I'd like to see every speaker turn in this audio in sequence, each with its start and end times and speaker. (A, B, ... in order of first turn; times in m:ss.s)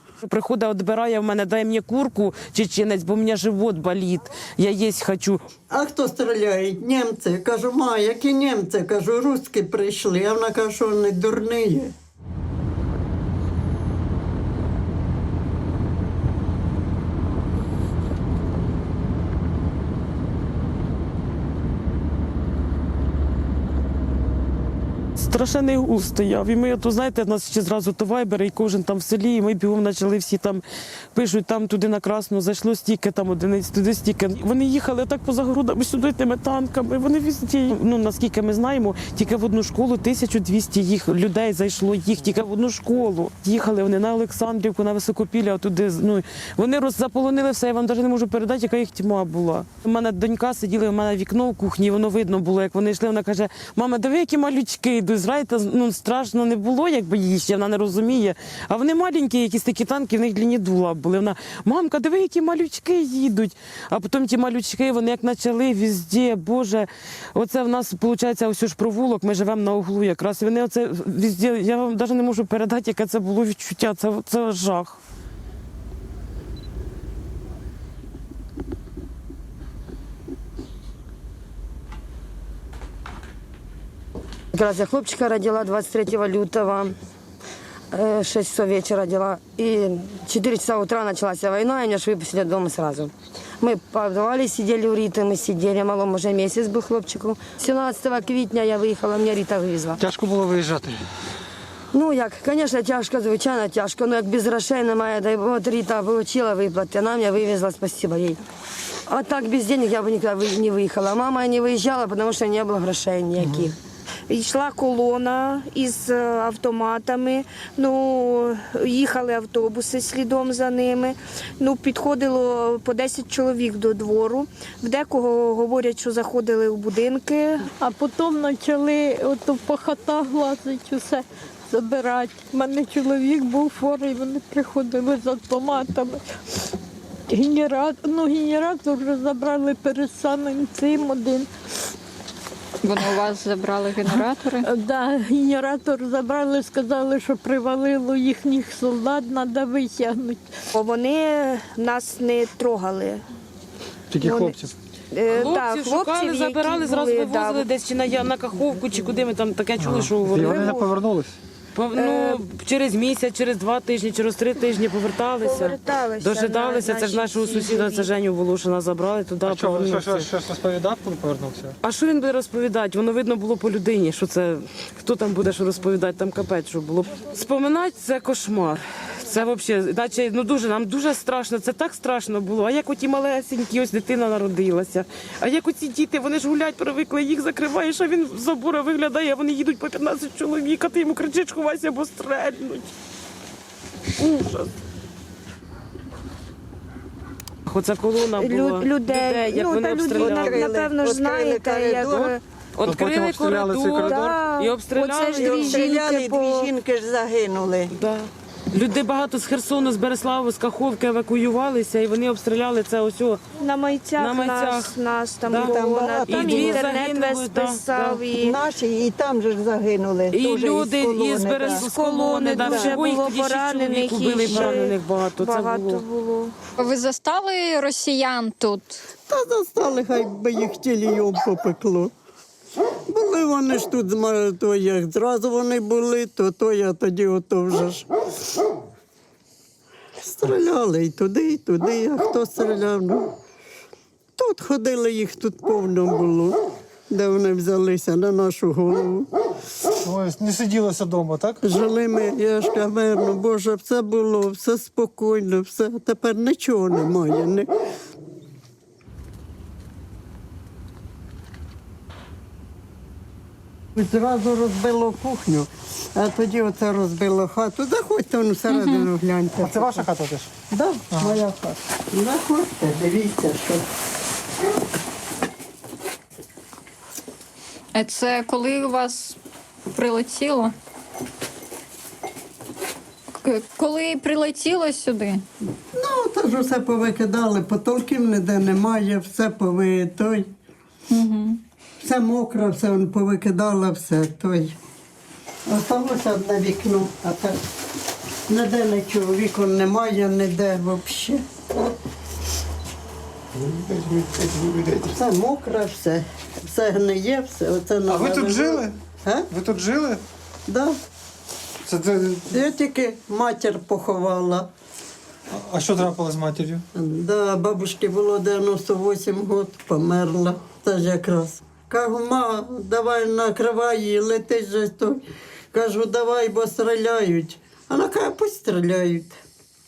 0:00.2-0:05.4 A
0:05.7-0:11.9 B
0:25.2-0:30.6 A
0:31.1-1:15.0 A
1:24.5-1:26.9 C
1:27.9-1:40.0 C
1:40.0-1:41.0 D
1:41.9-1:48.4 C
1:49.1-1:53.7 C
1:54.3-2:07.6 E
2:07.8-2:16.2 F
2:17.3-2:21.5 F
2:22.8-2:24.6 G
2:24.6-2:30.4 F
2:30.7-2:33.2 E
2:34.1-2:34.7 D
2:34.2-2:34.6 E
2:35.1-2:37.6 E
2:35.3-2:40.9 A
2:39.8-2:41.4 D
2:41.7-2:50.3 A
2:41.9-2:42.4 E
2:45.4-2:48.1 E
2:49.4-2:51.7 D
2:51.8-3:12.9 A
3:14.2-3:14.7 A
3:17.7-3:20.7 A
3:18.4-3:22.4 E
3:20.1-3:22.3 B
3:22.1-3:25.9 A
3:22.8-3:24.4 D
3:23.8-3:26.7 E
3:25.2-3:27.9 B
3:27.9-3:33.6 A
3:33.6-3:38.6 E
3:34.2-3:38.2 A
3:35.5-3:36.9 B
3:38.3-3:41.9 B
3:40.3-3:46.0 A
3:41.6-3:46.5 E
3:42.5-3:43.0 B
3:44.5-3:44.8 B
3:46.8-3:49.0 G
3:49.3-3:52.1 B
3:53.1-3:58.1 B
4:00.2-4:03.3 B
4:04.4-4:09.3 B
4:10.0-4:11.6 D
4:11.6-4:17.7 B
4:24.0-4:30.1 B
4:28.7-4:29.1 G
4:29.6-4:30.5 D
4:30.7-4:33.8 B
4:31.1-4:31.4 D
4:37.9-4:39.4 G
4:39.9-4:40.7 G
4:43.3-4:45.4 G
4:46.0-4:50.5 B
4:51.1-4:51.6 G
4:52.0-4:54.8 B
4:55.7-4:57.6 B
4:58.5-5:01.4 B
5:04.0-5:05.0 D
5:05.0-5:09.5 B
5:08.1-5:09.0 D
5:09.5-5:10.2 D
5:10.7-5:11.0 B
5:11.9-5:12.5 D
5:12.5-5:14.7 B
5:15.5-5:16.8 D
5:16.9-5:29.3 B